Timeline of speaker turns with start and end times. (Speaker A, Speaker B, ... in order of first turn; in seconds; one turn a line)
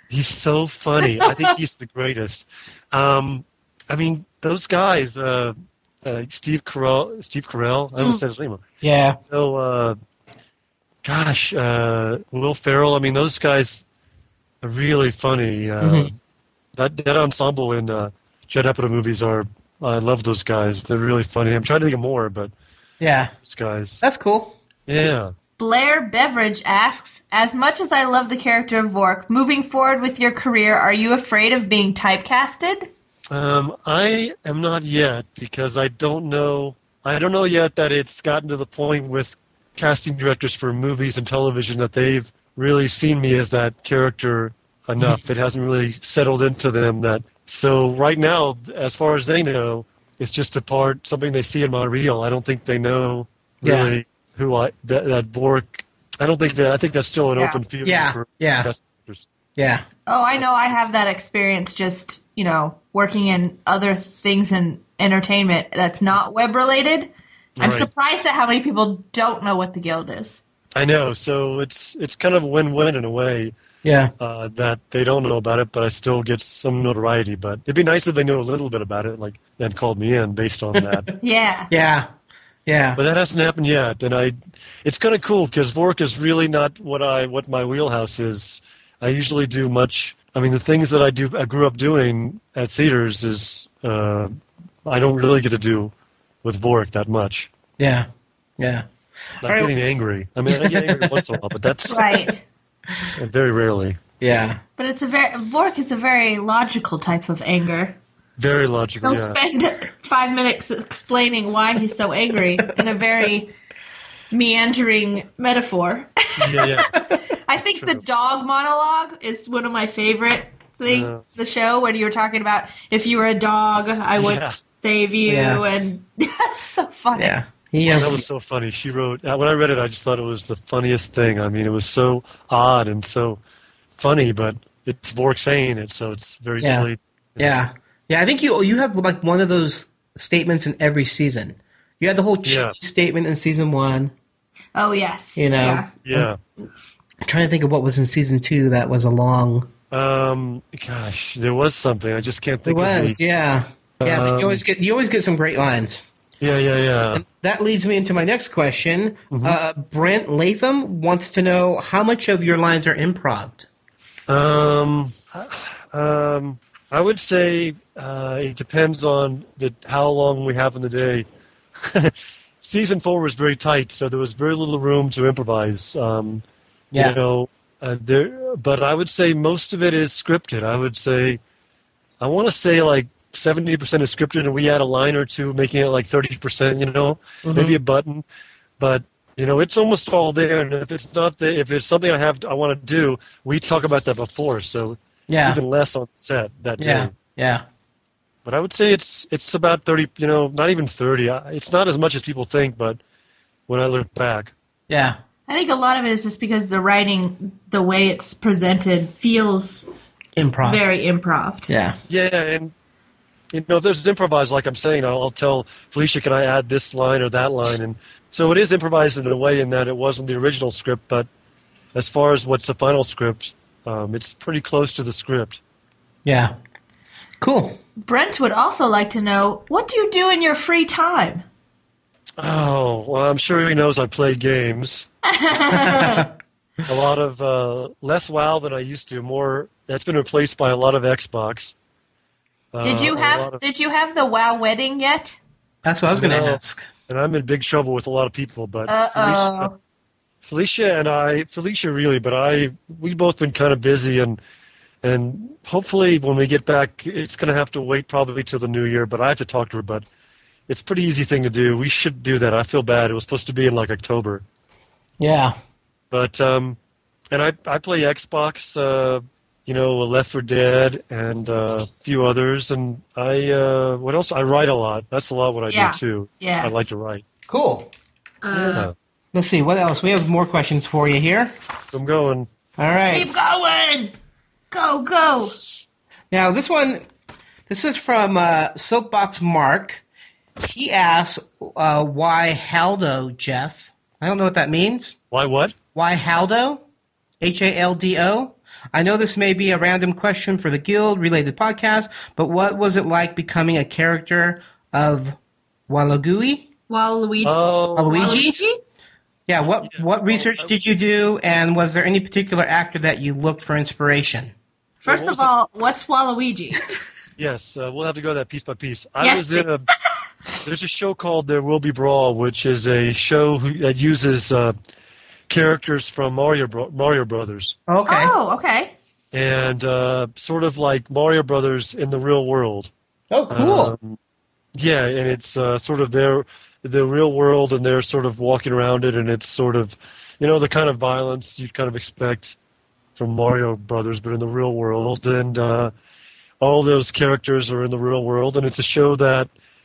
Speaker A: 0.1-8.6
Speaker B: 1.2-1.5
Speaker C: 8.8-9.2
Speaker A: 9.3-10.0
Speaker A: 11.0-13.8
Speaker A: 14.6-16.1
Speaker C: 15.8-16.1
Speaker A: 16.8-22.5
Speaker C: 23.0-23.3
Speaker A: 23.4-24.0
Speaker C: 24.0-24.6
Speaker A: 24.9-25.3
Speaker B: 25.6-32.9
Speaker A: 33.3-59.2
Speaker C: 53.6-53.9
Speaker C: 57.8-58.7
Speaker C: 59.5-59.8
Speaker B: 60.1-70.4
Speaker A: 60.4-60.7
Speaker A: 67.6-67.9
Speaker A: 70.7-73.5
Speaker C: 73.8-74.1
Speaker A: 74.2-81.1
Speaker B: 81.2-81.7
Speaker C: 81.7-82.1
Speaker C: 82.7-83.0
Speaker A: 83.0-95.9
Speaker A: 96.4-97.5
Speaker C: 97.8-98.1
Speaker C: 98.6-98.8
Speaker A: 99.4-102.0
Speaker C: 99.4-99.7
Speaker C: 100.5-101.2
Speaker B: 101.9-102.4
Speaker A: 103.2-104.0
Speaker C: 104.2-104.6
Speaker B: 104.8-108.0
Speaker A: 108.4-109.3
Speaker B: 109.0-113.5
Speaker B: 114.3-127.3
Speaker A: 116.4-116.9
Speaker A: 117.7-118.0
Speaker A: 120.8-121.2
Speaker A: 124.2-124.5
Speaker C: 125.2-125.6
Speaker C: 127.1-128.2
Speaker A: 127.8-133.4
Speaker A: 133.9-137.6
Speaker C: 136.6-144.1
Speaker A: 142.4-142.8
Speaker B: 144.8-145.9
Speaker C: 145.3-146.3
Speaker A: 146.0-146.4
Speaker C: 147.2-149.7
Speaker A: 149.9-153.2
Speaker C: 152.7-156.0
Speaker A: 154.0-154.6
Speaker A: 156.4-157.2
Speaker C: 157.1-163.7
Speaker A: 159.3-159.6
Speaker A: 164.3-171.2
Speaker A: 171.8-176.4
Speaker C: 176.9-177.2
Speaker A: 176.9-181.4
Speaker A: 182.2-188.2
Speaker C: 187.4-187.8
Speaker A: 188.8-197.1
Speaker C: 195.3-195.6
Speaker C: 196.8-197.6
Speaker A: 198.4-203.0
Speaker A: 203.7-204.5
Speaker C: 204.9-205.2
Speaker B: 205.5-209.8
Speaker C: 210.3-210.8
Speaker B: 210.6-211.7
Speaker C: 211.7-212.0
Speaker A: 212.1-212.7
Speaker A: 213.5-221.3
Speaker A: 221.9-225.6
Speaker C: 226.2-226.5
Speaker C: 227.4-227.8
Speaker B: 228.0-231.4
Speaker A: 232.4-235.1
Speaker B: 235.2-236.3
Speaker C: 235.7-236.3
Speaker A: 236.9-241.7
Speaker A: 242.7-243.6
Speaker B: 242.8-245.3
Speaker C: 245.8-246.9
Speaker A: 246.1-249.7
Speaker B: 248.9-249.7
Speaker A: 250.4-254.4
Speaker A: 255.0-260.0
Speaker A: 260.7-264.4
Speaker C: 265.2-265.6
Speaker A: 266.1-266.8
Speaker A: 267.3-277.2
Speaker B: 275.7-276.7
Speaker C: 277.5-277.9
Speaker B: 278.4-278.9
Speaker A: 278.6-278.9
Speaker C: 279.3-281.5
Speaker A: 281.9-282.5
Speaker C: 282.8-283.3
Speaker B: 283.1-284.1
Speaker B: 284.7-285.6
Speaker C: 286.3-287.0
Speaker C: 287.7-290.0
Speaker C: 290.6-295.1
Speaker A: 295.3-295.7
Speaker C: 295.9-296.8
Speaker C: 297.4-305.4
Speaker C: 305.9-306.7
Speaker B: 306.9-308.8
Speaker A: 307.4-308.3
Speaker C: 307.9-308.6
Speaker C: 309.5-314.5
Speaker A: 309.8-310.7
Speaker B: 315.0-316.9
Speaker A: 315.1-315.5
Speaker A: 317.4-319.8
Speaker B: 319.2-319.7
Speaker A: 320.6-324.7
Speaker A: 325.5-327.8
Speaker C: 327.9-328.3
Speaker B: 328.1-328.9
Speaker A: 329.3-332.9
Speaker C: 333.3-333.9
Speaker A: 333.5-334.2
Speaker A: 334.7-342.6
Speaker A: 343.1-345.9
Speaker A: 346.6-349.5